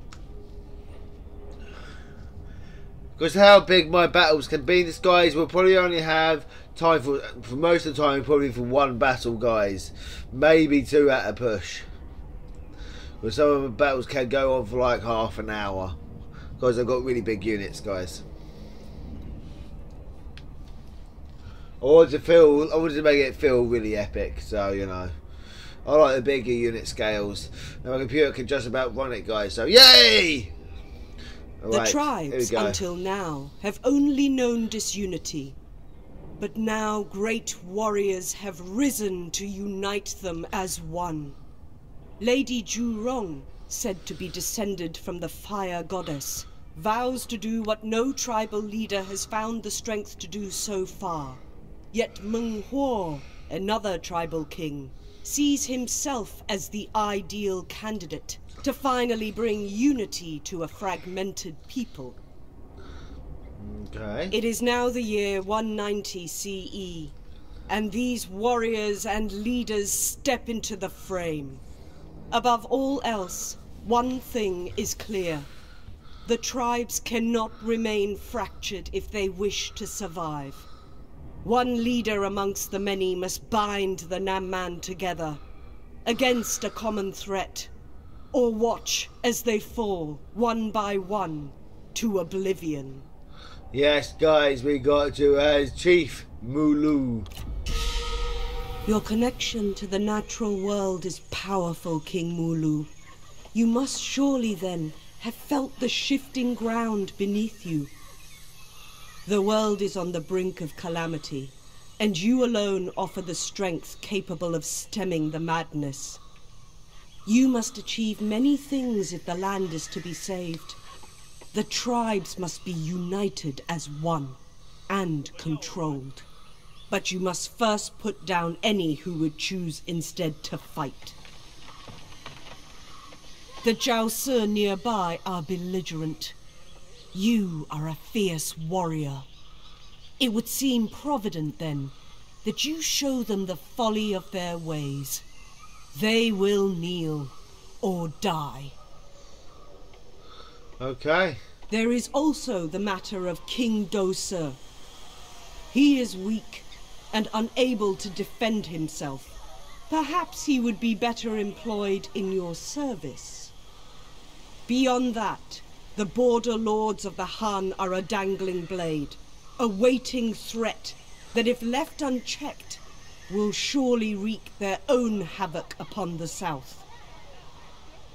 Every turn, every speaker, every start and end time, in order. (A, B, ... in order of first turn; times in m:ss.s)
0:03.2-0:11.8 A
0:13.2-0:16.0 A
0:16.6-0:18.2 A
0:21.8-0:25.1 A
0:25.8-0:30.5 A
0:31.6-0:32.8 A
0:31.7-0:35.6 B
0:36.4-0:41.4 B
0:42.2-1:02.2 B
1:03.6-1:04.4 A
1:04.3-1:07.1 B
1:07.7-1:11.6 B
1:12.3-1:15.5 B
1:16.2-1:20.7 B
1:21.4-1:25.4 B
1:26.0-1:27.7 B
1:28.3-1:33.0 B
1:33.7-1:37.3 A
1:38.8-1:42.9 B
1:43.5-1:47.9 B
1:49.2-1:56.2 B
1:57.2-2:00.8 B
2:01.5-2:06.2 B
2:06.9-2:11.2 B
2:13.6-2:16.4 B
2:17.1-2:19.3 B
2:20.2-2:25.2 B
2:25.9-2:28.7 B
2:30.8-2:31.4 A
2:31.7-2:34.6 B
2:35.7-2:39.3 B
2:39.9-2:43.5 B
2:44.7-2:56.9 B